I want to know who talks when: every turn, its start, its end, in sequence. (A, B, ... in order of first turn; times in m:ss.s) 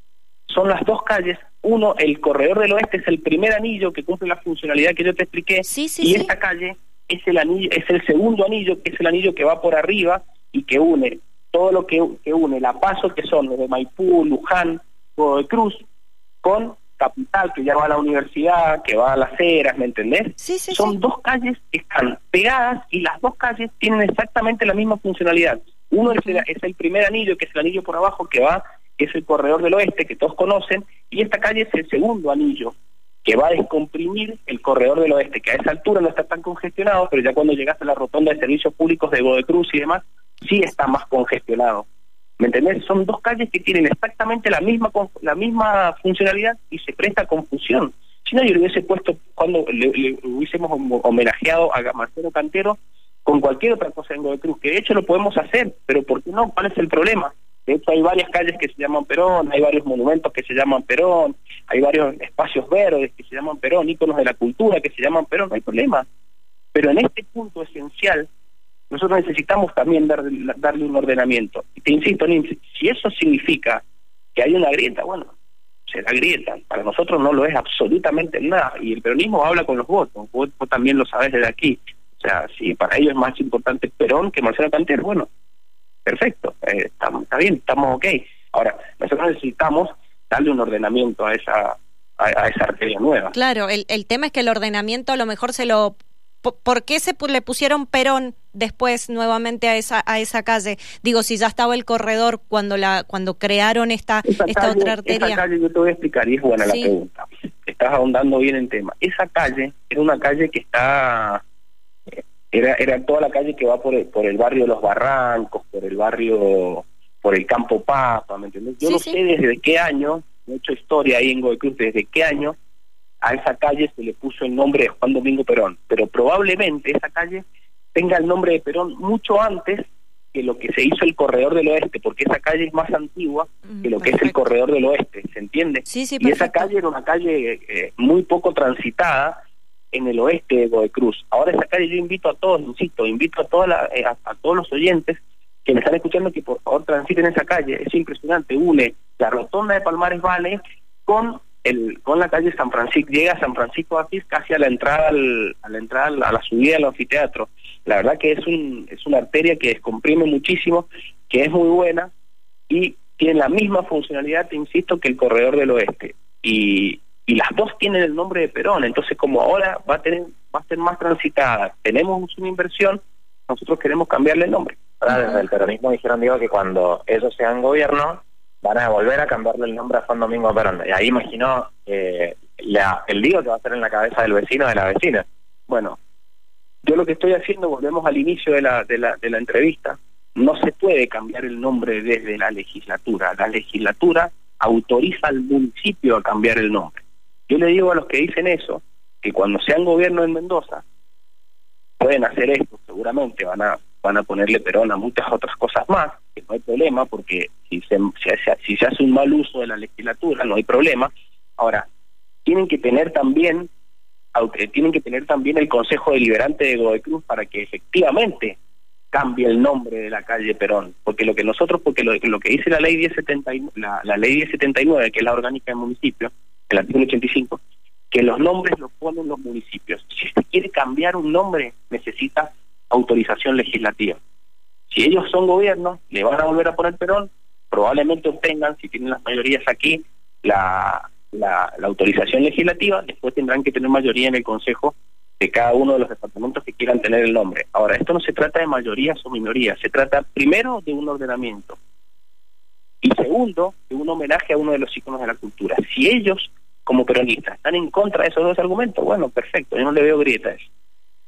0:00.5-0:15.8 A
0:05.6-0:06.3 B
0:16.4-0:41.8 A
0:20.4-0:21.0 B
0:26.1-0:26.4 B
0:42.4-1:06.1 A
1:06.7-1:08.3 A
1:08.9-1:13.8 A
1:14.3-1:15.3 A
1:15.9-1:25.3 A
1:26.0-1:33.3 A
1:33.3-1:45.4 B
1:44.3-1:51.4 A
1:46.6-1:46.9 B
1:52.5-2:02.6 A
1:58.8-1:59.2 B
2:03.2-2:19.4 A
2:13.7-2:14.3 B
2:15.9-2:16.7 B
2:19.9-2:42.1 A
2:42.7-2:55.0 A
2:55.1-3:05.2 C
3:05.7-3:06.0 A
3:06.8-3:20.8 A
3:22.0-3:31.8 A
3:32.4-3:33.7 A
3:34.3-3:38.6 A
3:39.1-3:54.2 A
3:54.9-4:11.8 A
4:13.0-4:20.7 A